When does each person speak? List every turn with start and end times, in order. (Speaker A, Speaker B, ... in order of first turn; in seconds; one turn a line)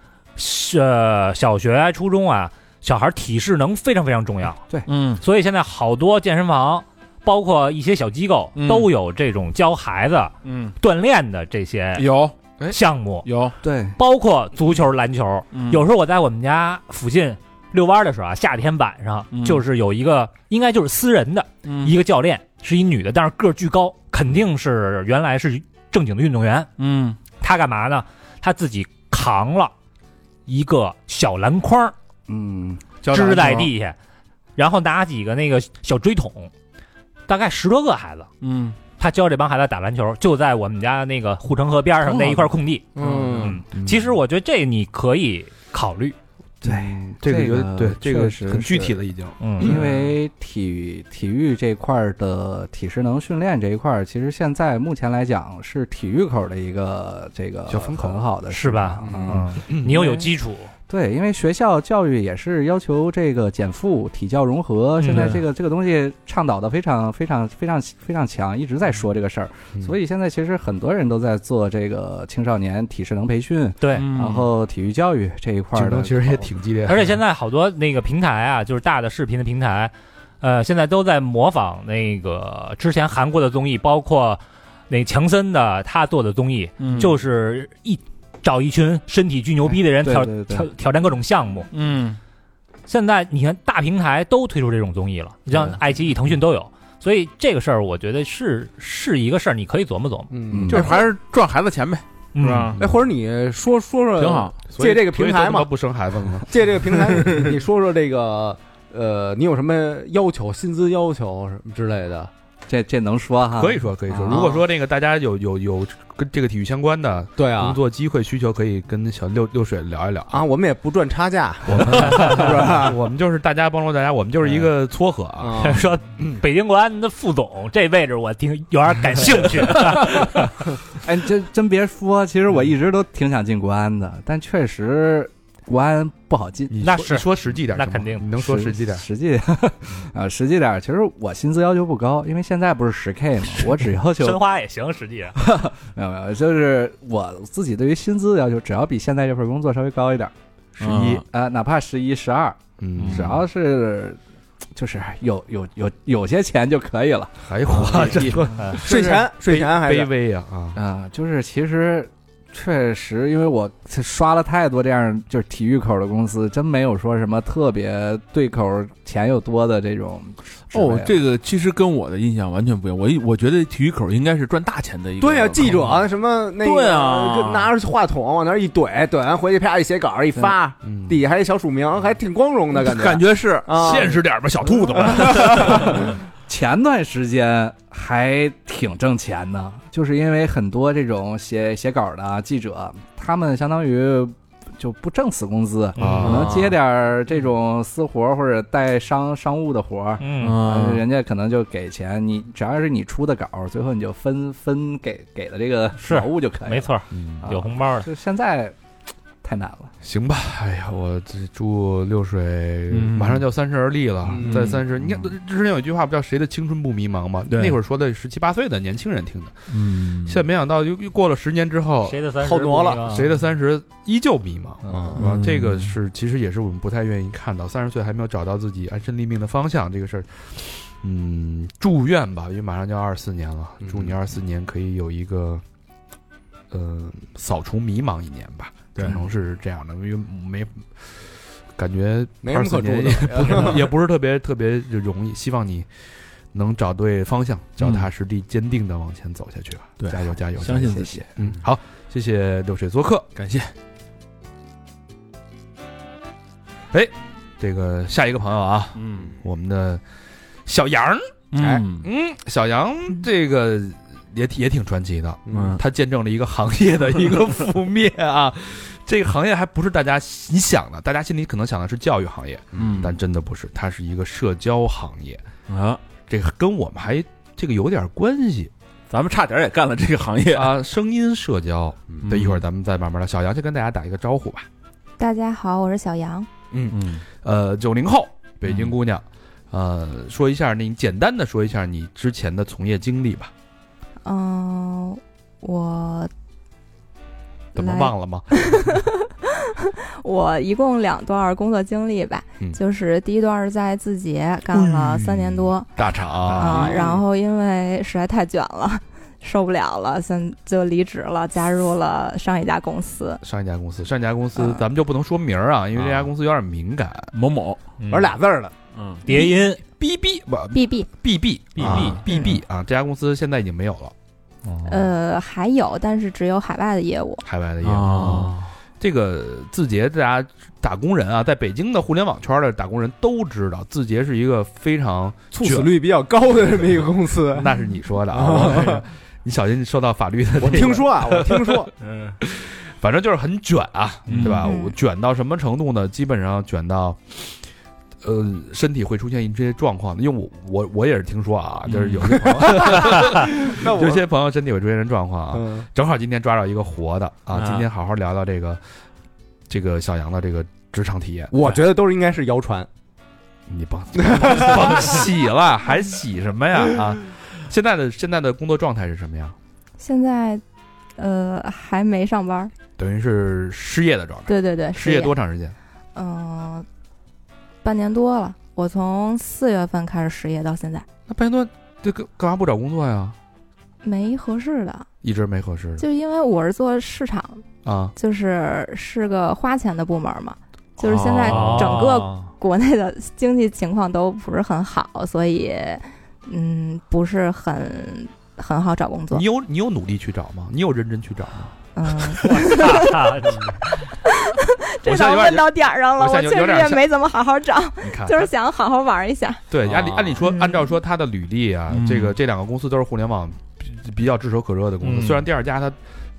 Speaker A: 0.3-4.6
Speaker B: 4.8-5.2
Speaker A: 5.2-12.0
Speaker B: 8.6-8.9
Speaker B: 10.4-10.7
Speaker B: 11.9-12.3
Speaker A: 12.7-13.3
Speaker B: 13.2-13.6
Speaker C: 13.6-14.0
Speaker A: 14.0-26.7
Speaker B: 15.5-15.8
Speaker B: 19.3-19.6
Speaker B: 21.6-21.9
Speaker B: 26.8-27.2
Speaker A: 27.3-29.7
Speaker A: 30.5-31.9
Speaker C: 32.3-32.8
Speaker B: 33.0-33.7
Speaker A: 33.1-34.0
Speaker A: 34.5-36.5
Speaker A: 37.3-38.3
Speaker B: 38.4-38.8
Speaker A: 39.0-46.1
Speaker D: 43.0-43.6
Speaker E: 43.7-44.1
Speaker E: 46.6-49.4
Speaker C: 46.6-49.0
Speaker A: 49.4-49.8
Speaker C: 49.6-60.3
Speaker E: 57.7-58.2
Speaker A: 58.5-60.7
Speaker D: 59.0-59.4
Speaker E: 59.5-59.9
Speaker C: 60.9-76.5
Speaker A: 65.0-65.3
Speaker B: 65.1-65.4
Speaker A: 73.8-74.1
Speaker B: 73.9-74.5
Speaker E: 75.7-77.2
Speaker A: 76.9-91.7
Speaker B: 86.8-87.1
Speaker C: 89.7-90.7
Speaker B: 91.7-92.2
Speaker A: 92.9-100.3
Speaker D: 100.3-101.1
Speaker C: 100.5-100.9
Speaker B: 100.7-102.8
Speaker A: 102.3-102.8
Speaker D: 102.8-105.7
Speaker B: 104.2-104.6
Speaker E: 104.7-106.5
Speaker D: 106.4-112.3
Speaker C: 112.7-114.4
Speaker E: 113.5-120.4
Speaker D: 114.2-114.6
Speaker D: 117.4-117.8
Speaker D: 120.3-123.0
Speaker E: 121.7-126.4
Speaker D: 125.4-125.8
Speaker A: 125.6-130.6
Speaker C: 131.0-136.8
Speaker E: 136.7-139.0
Speaker A: 136.8-138.3
Speaker C: 138.4-144.4
Speaker A: 144.2-145.4
Speaker C: 145.4-150.3
Speaker E: 150.8-151.2
Speaker B: 150.8-151.2
Speaker C: 151.2-154.2
Speaker E: 152.8-153.4
Speaker B: 153.0-153.3
Speaker C: 154.8-158.4
Speaker E: 157.4-160.8
Speaker D: 158.0-160.1
Speaker C: 160.8-171.2
Speaker B: 170.7-177.7
Speaker D: 175.2-184.2
Speaker E: 180.8-181.2
Speaker B: 182.7-183.9
Speaker E: 183.8-185.9
Speaker D: 185.4-185.9
Speaker C: 186.4-206.9
Speaker A: 196.0-196.3
Speaker E: 196.0-196.5
Speaker B: 196.1-196.7
Speaker A: 200.2-200.6
Speaker B: 200.4-201.0
Speaker A: 206.0-208.1
Speaker E: 207.1-207.4
Speaker C: 207.4-208.7
Speaker C: 209.4-209.9
Speaker E: 210.0-222.2
Speaker B: 212.9-213.4
Speaker D: 214.3-214.8
Speaker B: 217.5-217.8
Speaker B: 219.7-220.4
Speaker A: 222.0-223.3
Speaker D: 222.4-223.2
Speaker E: 223.0-235.6
Speaker D: 224.9-225.2
Speaker B: 225.2-225.9
Speaker D: 233.8-234.1
Speaker E: 236.7-245.9
Speaker B: 238.9-239.2
Speaker D: 242.4-243.9
Speaker E: 246.5-253.3
Speaker B: 247.8-248.1
Speaker B: 250.0-251.3
Speaker C: 250.8-251.2
Speaker B: 253.3-253.7
Speaker E: 256.9-260.0
Speaker B: 259.0-259.3
Speaker E: 260.6-261.3
Speaker B: 261.5-262.1
Speaker D: 261.6-261.8
Speaker E: 262.0-275.4
Speaker D: 265.5-265.8
Speaker B: 265.5-265.8
Speaker D: 272.8-273.0
Speaker B: 272.8-273.1
Speaker B: 275.7-276.0
Speaker E: 276.3-278.7
Speaker B: 279.1-280.7
Speaker E: 280.5-284.7
Speaker B: 282.2-282.6
Speaker F: 285.2-286.5
Speaker E: 286.7-293.5
Speaker B: 286.9-287.2
Speaker B: 288.6-288.9
Speaker F: 294.2-296.3
Speaker F: 297.7-299.3
Speaker E: 297.7-298.9
Speaker F: 299.8-305.9
Speaker E: 304.7-307.2
Speaker F: 306.5-313.4
Speaker E: 313.4-317.3
Speaker F: 314.6-314.8
Speaker B: 315.9-316.3
Speaker B: 317.3-317.8
Speaker A: 318.0-318.4
Speaker D: 318.1-318.7
Speaker B: 318.9-319.2
Speaker A: 319.2-319.8
Speaker F: 319.3-319.6
Speaker E: 319.3-324.1
Speaker F: 320.7-321.1
Speaker A: 321.7-322.2
Speaker B: 321.8-322.2
Speaker F: 322.2-322.6
Speaker A: 324.6-325.1
Speaker F: 324.9-327.4
Speaker E: 327.4-335.9
Speaker B: 327.8-328.6
Speaker D: 335.5-337.7
Speaker E: 337.5-341.8
Speaker D: 338.3-339.0
Speaker D: 340.6-341.9
Speaker B: 342.0-342.3
Speaker E: 342.4-347.7
Speaker B: 344.3-344.7
Speaker F: 344.5-345.0
Speaker E: 348.2-358.8
Speaker B: 351.9-352.4
Speaker D: 352.4-354.2
Speaker D: 355.5-355.9
Speaker B: 357.5-357.9
Speaker E: 359.7-361.8
Speaker D: 361.5-362.9
Speaker E: 363.7-369.6
Speaker D: 364.1-365.2
Speaker F: 370.0-370.6
Speaker F: 371.2-372.7
Speaker E: 373.0-375.8
Speaker F: 374.5-375.3
Speaker F: 376.1-376.9
Speaker F: 377.8-381.1
Speaker E: 381.3-383.4
Speaker F: 384.0-385.1
Speaker E: 385.2-386.0
Speaker F: 386.0-387.6
Speaker E: 387.8-388.1
Speaker F: 388.1-399.4
Speaker A: 391.4-392.5
Speaker B: 391.5-391.9
Speaker E: 399.3-401.7
Speaker F: 401.9-403.4
Speaker A: 402.4-403.6
Speaker F: 404.2-409.7
Speaker E: 405.0-407.1
Speaker E: 408.0-408.5
Speaker E: 409.7-416.0
Speaker D: 409.9-410.3
Speaker F: 410.4-410.9
Speaker B: 411.9-412.3